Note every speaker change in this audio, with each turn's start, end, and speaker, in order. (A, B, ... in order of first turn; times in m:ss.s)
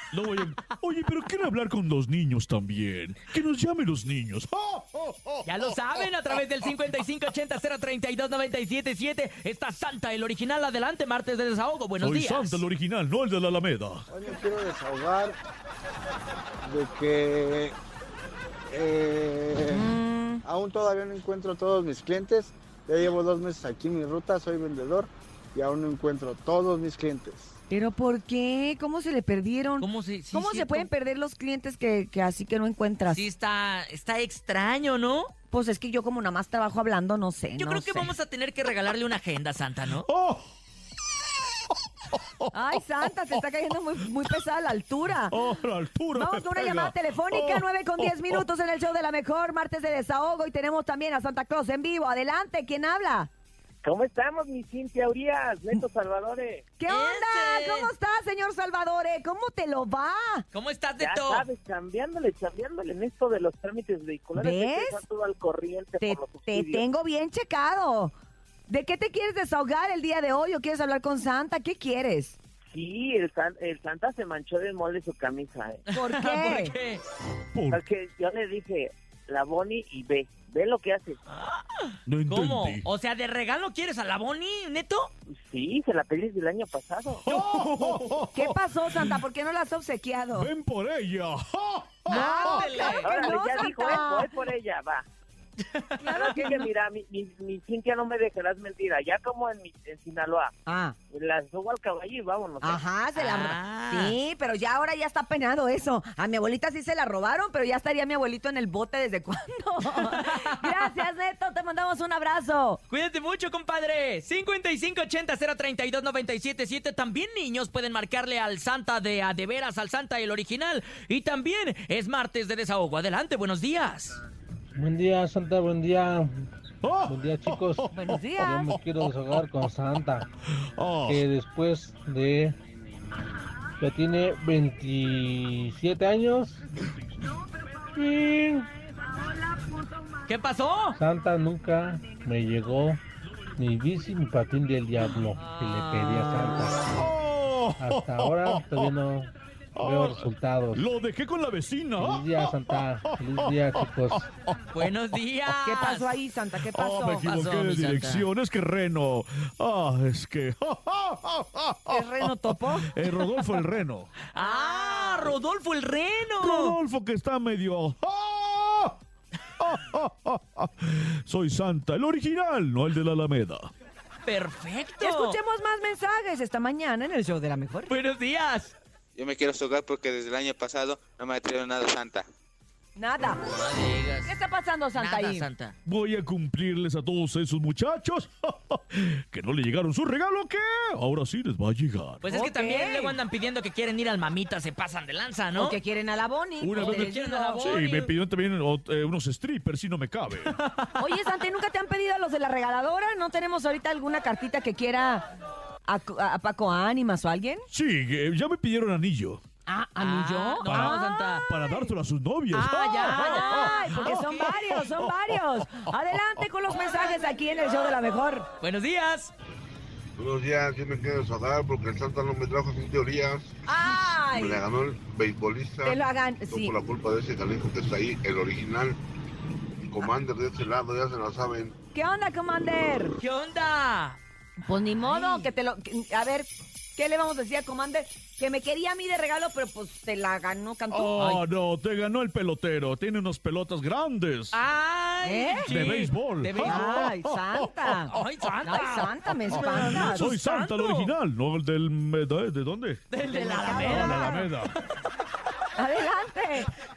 0:00.1-0:05.4 A
0:05.4-0:12.6 B
0:12.0-0:14.0 A
0:14.1-0:15.4 C
0:16.6-0:17.8 C
0:18.7-0:19.9 C
0:19.7-0:20.4 D
0:20.4-0:27.6 C
0:27.7-0:33.3 D
0:29.8-0:30.9 B
0:33.1-0:35.3 B
0:35.5-0:38.1 D
0:37.6-0:40.1 B
0:40.0-0:40.5 A
0:42.1-0:42.8 A
0:42.5-0:45.4 D
0:45.3-0:48.5 A
0:46.1-0:53.3 D
0:53.8-0:56.6 E
0:56.8-1:00.5 D
0:56.9-0:57.9 B
1:00.5-1:01.5 B
1:01.0-1:06.8 E
1:04.4-1:05.0 D
1:06.0-1:08.1 D
1:08.7-1:12.4 D
1:12.7-1:15.9 E
1:15.9-1:17.0 B
1:15.9-1:16.7 D
1:17.5-1:17.8 A
1:17.7-1:21.2 E
1:21.3-1:21.6 B
1:22.1-1:22.9 A
1:22.3-1:25.1 B
1:25.4-1:27.2 E
1:27.2-1:29.2 A
1:27.3-1:28.0 B
1:28.3-1:30.5 D
1:30.3-1:32.8 A
1:32.1-1:33.6 B
1:32.1-1:34.3 D
1:33.0-1:35.1 E
1:35.7-1:36.5 B
1:36.0-1:36.6 D
1:36.2-1:40.5 E
1:40.7-1:41.0 D
1:41.1-1:42.8 E
1:42.6-1:52.8 D
1:43.2-1:44.2 B
1:50.0-1:50.9 B
1:52.9-2:04.2 B
2:04.8-2:06.3 F
2:06.8-2:08.7 A
2:07.1-2:07.9 F
2:07.9-2:08.8 D
2:08.4-2:10.3 F
2:10.8-2:11.2 A
2:11.1-2:12.6 F
2:13.8-2:16.6 F
2:18.0-2:18.7 F
2:20.3-2:21.0 B
2:21.0-2:23.0 F
2:23.6-2:26.9 F
2:25.4-2:26.6 B
2:26.9-2:28.8 A
2:27.8-2:30.8 F
2:29.8-2:32.5 A
2:32.0-2:34.3 F
2:33.0-2:33.4 A
2:34.7-2:36.1 B
2:35.6-2:37.3 D
2:36.7-2:44.1 A
2:37.2-2:38.3 B
2:41.9-2:42.9 D
2:44.3-2:46.8 B
2:44.4-2:45.3 D
2:46.4-2:49.0 A
2:49.6-2:53.7 A
2:54.3-2:55.4 B
2:55.0-2:57.9 D
2:57.9-2:58.7 B
2:59.2-3:02.3 G
3:03.0-3:03.4 D
3:03.4-3:04.3 B
3:04.2-3:05.5 D
3:05.0-3:05.8 B
3:05.8-3:12.2 A
3:12.2-3:15.8 B
3:12.3-3:13.2 D
3:15.6-3:17.7 D
3:16.6-3:20.6 A
3:16.8-3:18.1 B
3:20.5-3:21.0 B
3:21.0-3:25.3 D
3:25.9-3:27.6 D
3:27.7-3:29.4 A
3:29.7-3:31.9 D
3:30.0-3:31.5 B
3:30.6-3:35.7 A
3:32.5-3:34.6 B
3:33.1-3:38.5 D
3:38.6-3:39.3 B
3:40.2-3:43.6 H
3:43.7-3:44.6 D
3:44.3-3:49.0 H
3:45.8-3:46.7 D
3:49.9-3:51.8 H
3:51.9-3:53.2 D
3:53.2-3:54.2 B
3:54.6-4:01.4 D
3:55.0-3:55.5 B
4:00.9-4:04.6 A
4:01.2-4:01.4 B
4:04.5-4:07.1 B
4:05.2-4:05.7 D
4:05.6-4:08.1 A
4:06.6-4:10.3 D
4:08.1-4:11.1 B
4:09.5-4:13.0 A
4:13.1-4:14.4 B
4:13.3-4:14.5 D
4:13.6-4:14.7 A
4:15.8-4:16.7 D